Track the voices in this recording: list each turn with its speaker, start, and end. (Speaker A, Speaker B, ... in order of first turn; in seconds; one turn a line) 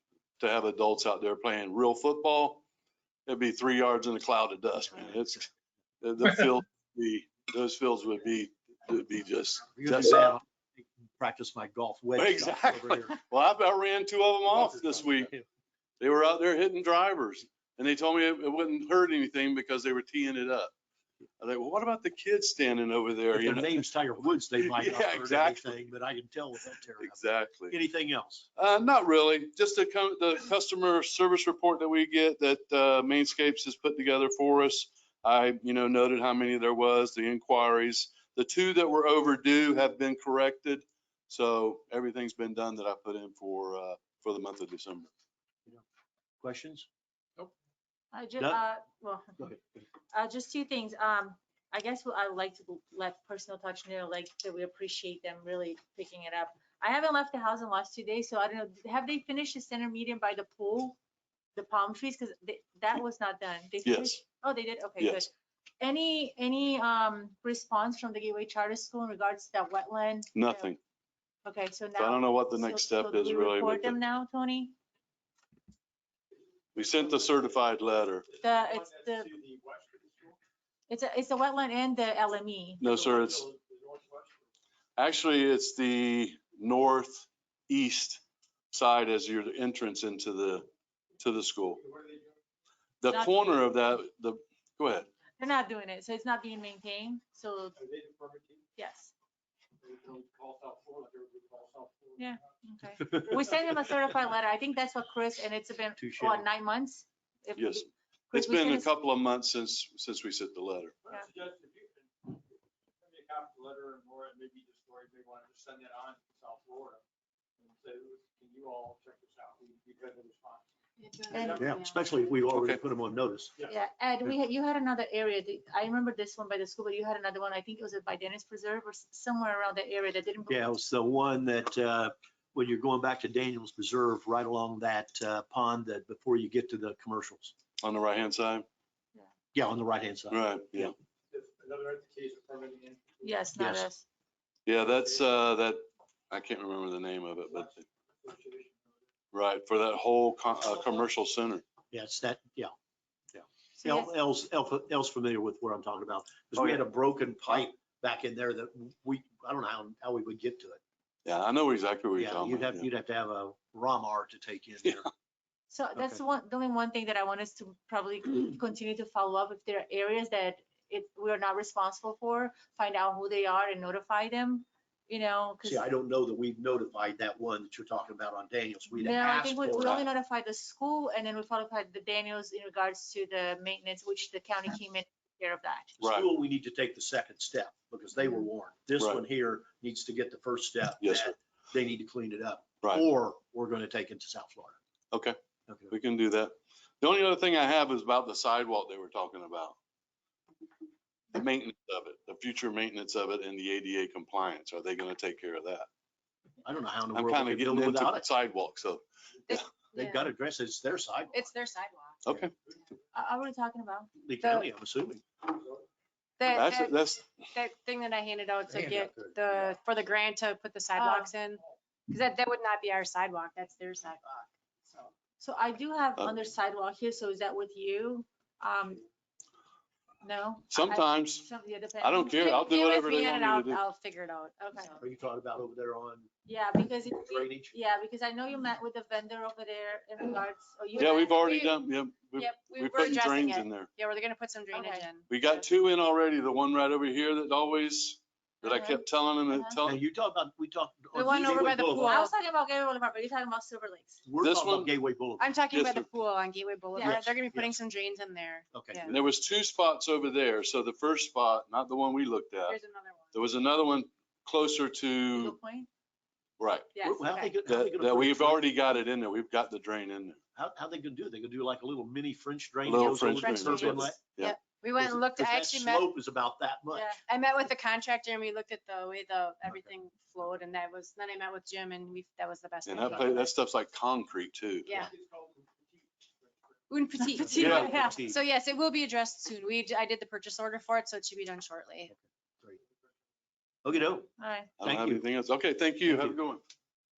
Speaker A: 0.4-2.6
Speaker A: 3.3-5.5
Speaker A: 6.0-10.3
Speaker B: 9.8-13.2
Speaker A: 12.2-15.3
Speaker B: 14.5-15.4
Speaker A: 16.0-20.7
Speaker A: 21.4-23.8
Speaker B: 23.3-28.5
Speaker A: 24.6-25.8
Speaker A: 27.0-27.8
Speaker A: 28.6-45.1
Speaker B: 46.4-46.9
Speaker C: 48.1-49.4
Speaker C: 50.1-61.0
Speaker C: 61.6-70.7
Speaker A: 63.9-64.2
Speaker A: 70.3-70.8
Speaker C: 71.5-74.8
Speaker A: 72.0-74.0
Speaker A: 76.8-78.3
Speaker D: 76.8-77.5
Speaker D: 78.3-80.4
Speaker C: 78.4-79.3
Speaker C: 80.9-82.8
Speaker A: 82.8-83.5
Speaker D: 82.8-84.4
Speaker A: 85.0-90.7
Speaker A: 91.2-91.8
Speaker D: 91.8-92.3
Speaker A: 93.0-95.1
Speaker C: 93.1-93.6
Speaker C: 95.4-97.8
Speaker D: 97.8-98.7
Speaker C: 98.8-99.1
Speaker D: 99.8-102.5
Speaker C: 102.2-108.9
Speaker B: 106.0-106.5
Speaker A: 107.6-110.9
Speaker D: 111.0-112.4
Speaker D: 113.0-117.0
Speaker D: 117.6-120.6
Speaker E: 121.0-122.0
Speaker D: 121.3-121.6
Speaker C: 121.3-121.7
Speaker B: 121.6-123.5
Speaker A: 122.5-122.8
Speaker C: 123.7-130.7
Speaker B: 130.5-137.5
Speaker A: 137.8-138.7
Speaker B: 139.5-140.9
Speaker A: 140.3-140.9
Speaker D: 141.3-143.3
Speaker C: 143.2-144.1
Speaker B: 143.6-143.9
Speaker A: 144.7-147.9
Speaker D: 147.5-148.8
Speaker A: 149.3-151.6
Speaker B: 151.9-152.7
Speaker B: 153.3-160.8
Speaker C: 153.8-154.1
Speaker A: 156.6-156.8
Speaker A: 161.3-162.9
Speaker B: 162.2-165.1
Speaker C: 165.7-175.8
Speaker B: 166.0-166.2
Speaker B: 175.6-180.1
Speaker C: 179.0-185.9
Speaker B: 186.0-194.8
Speaker A: 186.0-186.3
Speaker A: 189.0-189.2
Speaker A: 191.0-191.3
Speaker A: 195.1-195.4
Speaker B: 195.7-195.9
Speaker A: 195.9-199.8
Speaker A: 201.3-205.9
Speaker B: 206.6-208.2
Speaker A: 207.1-209.6
Speaker E: 209.5-210.3
Speaker B: 209.9-211.5
Speaker E: 211.3-212.2
Speaker A: 212.2-212.5
Speaker C: 213.1-214.1
Speaker B: 214.2-215.2
Speaker E: 214.4-214.7
Speaker E: 216.4-225.1
Speaker A: 216.5-217.2
Speaker B: 218.7-219.4
Speaker C: 220.9-221.3
Speaker C: 225.4-229.0
Speaker C: 230.2-232.7
Speaker A: 230.7-231.5
Speaker A: 232.0-233.8
Speaker E: 232.3-234.9
Speaker B: 235.0-236.3
Speaker C: 236.5-241.7
Speaker B: 237.1-237.8
Speaker A: 241.0-243.9
Speaker E: 241.3-241.6
Speaker E: 242.4-245.7
Speaker C: 244.7-245.1
Speaker A: 245.3-250.0
Speaker C: 248.6-249.8
Speaker B: 249.8-252.2
Speaker E: 251.1-252.3
Speaker C: 251.8-254.2
Speaker B: 254.2-255.5
Speaker A: 254.4-254.9
Speaker E: 255.4-259.2
Speaker A: 255.7-256.1
Speaker C: 257.0-257.3
Speaker B: 257.0-257.8
Speaker B: 258.7-259.2
Speaker A: 259.1-262.8
Speaker E: 262.7-263.4
Speaker A: 263.3-265.6
Speaker C: 265.3-265.9
Speaker A: 266.6-266.9
Speaker E: 266.9-267.2
Speaker B: 267.0-268.6
Speaker C: 267.2-267.5
Speaker A: 267.7-270.4
Speaker B: 270.6-274.2
Speaker A: 272.9-274.6
Speaker E: 272.9-276.1
Speaker B: 275.0-277.2
Speaker C: 276.9-277.2
Speaker E: 277.3-283.5
Speaker A: 282.9-284.9
Speaker E: 284.9-285.1
Speaker D: 284.9-286.8
Speaker E: 286.9-292.1
Speaker C: 287.2-288.3
Speaker B: 287.4-288.4
Speaker A: 287.6-288.0
Speaker B: 292.1-292.8
Speaker B: 293.8-294.3
Speaker C: 294.4-294.7
Speaker A: 294.8-296.6
Speaker B: 294.8-295.2
Speaker B: 296.1-296.4